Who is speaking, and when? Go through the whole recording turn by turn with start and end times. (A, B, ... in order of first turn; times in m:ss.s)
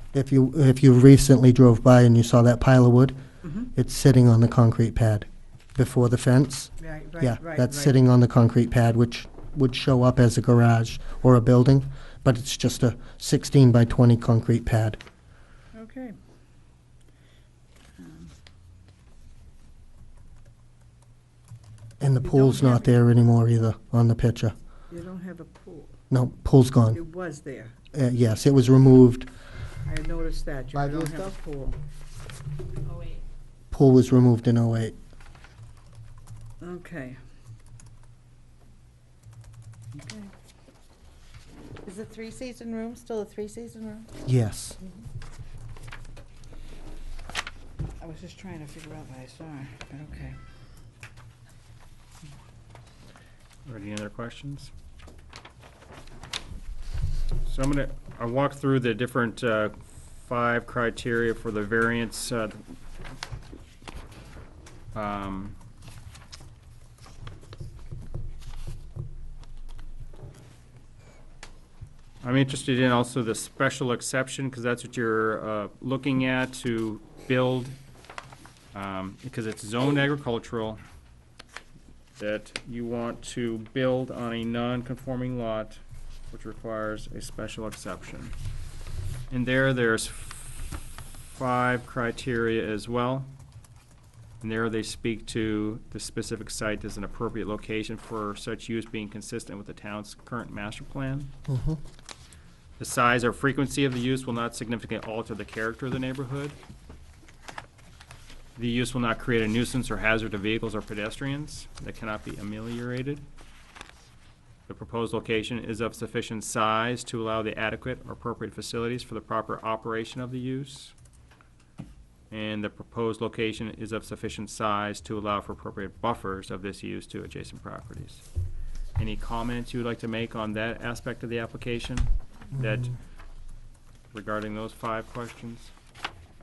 0:00.1-0:03.2 A
0:03.4-0:03.7 B
0:03.7-0:15.0 A
0:06.8-0:07.9 B
0:15.7-0:16.1 B
0:18.0-0:18.3 B
0:22.0-0:24.5 A
0:22.2-0:22.9 B
0:24.9-0:26.0 B
0:26.1-0:27.0 A
0:26.9-0:27.7 B
0:27.9-0:29.3 A
0:29.8-0:31.8 B
0:30.7-0:31.3 A
0:33.7-0:34.9 A
0:36.6-0:37.2 B
0:39.9-0:40.3 B
0:41.8-0:44.1 C
0:44.2-0:44.8 A
0:48.0-0:50.4 B
0:53.6-0:54.7 D
0:57.4-1:02.6 D
1:04.9-1:05.6 D
1:12.2-1:17.8 D
1:18.7-1:20.8 D
1:22.2-1:28.3 D
1:29.3-1:33.3 D
1:34.4-1:41.3 D
1:41.5-1:41.8 A
1:42.8-1:46.6 D
1:48.6-1:53.2 D
1:54.7-2:00.9 D
2:02.3-2:08.2 D
2:09.0-2:13.0 D
2:14.1-2:15.7 D